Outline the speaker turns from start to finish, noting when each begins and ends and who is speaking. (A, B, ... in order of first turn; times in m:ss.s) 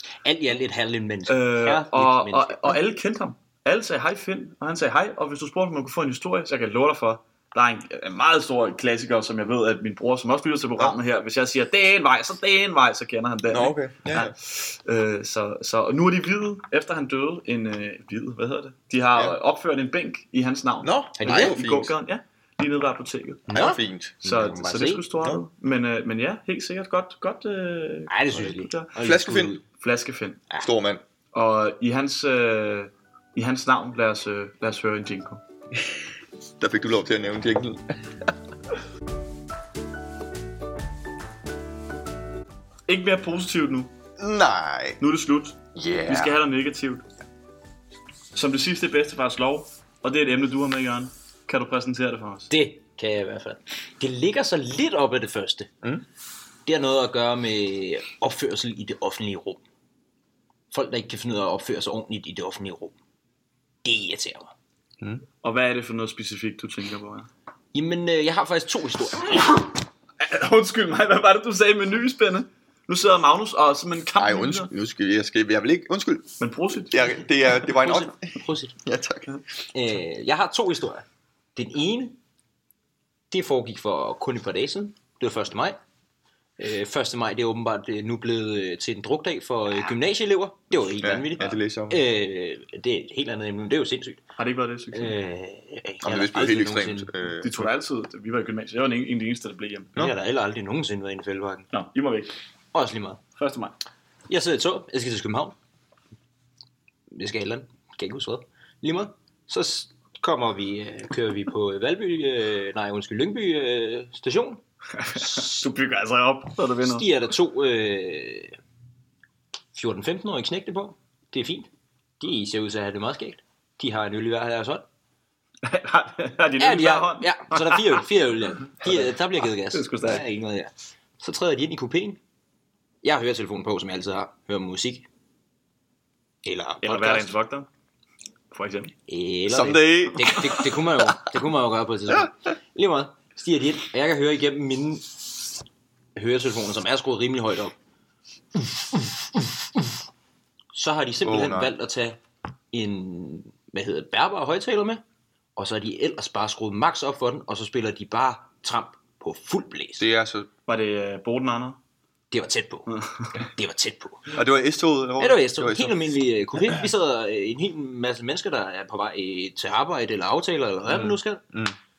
0:00.2-0:02.8 A
0:01.3-0:23.5 B
0:13.5-0:14.3 C
0:20.8-0:21.9 C
0:21.2-0:21.6 A
0:23.5-0:24.2 C
0:23.5-0:25.0 A
0:24.2-0:29.0 B
0:28.1-0:29.6 A
0:29.0-0:29.6 C
0:29.8-0:30.4 B
0:30.6-0:31.0 C
0:31.3-0:35.4 B
0:36.6-0:38.3 C
0:42.9-0:43.9 B
0:44.2-0:45.0 C
0:45.0-0:47.0 B
0:45.7-0:46.4 C
0:48.3-0:52.5 B
0:52.5-0:55.7 A
0:56.6-0:59.6 A
1:00.7-1:02.9 A
1:03.8-1:04.5 A
1:05.4-1:07.3 B
1:07.7-1:09.7 A
1:10.2-1:14.7 B
1:14.2-1:16.3 C
1:16.4-1:17.1 B
1:16.9-1:18.2 C
1:17.7-1:18.7 A
1:18.8-1:19.4 C
1:19.7-1:22.2 A
1:23.3-1:25.8 A
1:26.6-1:34.2 A
1:31.0-1:32.0 C
1:34.4-1:35.1 B
1:34.9-1:37.1 A
1:36.0-1:37.7 C
1:37.4-1:39.9 B
1:40.0-1:41.7 A
1:41.7-1:42.4 B
1:42.7-1:43.2 A
1:43.4-1:43.8 B
1:44.3-1:45.6 A
1:47.1-1:54.6 A
1:55.0-1:57.0 B
1:55.1-1:55.6 A
1:56.8-1:58.6 A
1:59.7-2:01.7 A
2:02.2-2:04.8 A
2:05.6-2:08.0 B
2:06.6-2:12.2 A
2:09.7-2:10.2 B
2:13.0-2:15.1 A
2:16.4-2:17.3 A
2:16.8-2:17.7 B
2:18.5-2:18.9 B
2:19.1-2:25.2 A
2:19.5-2:20.5 C
2:26.2-2:27.7 A
2:28.9-2:29.5 A
2:30.7-2:32.2 A
2:31.2-2:31.7 C
2:32.7-2:35.0 A
2:35.6-2:40.1 A
2:40.0-2:40.5 C
2:40.7-2:41.8 B
2:42.3-2:44.3 A
2:42.9-2:43.3 B
2:44.3-2:46.0 C
2:45.2-2:51.4 A
2:50.9-2:51.7 C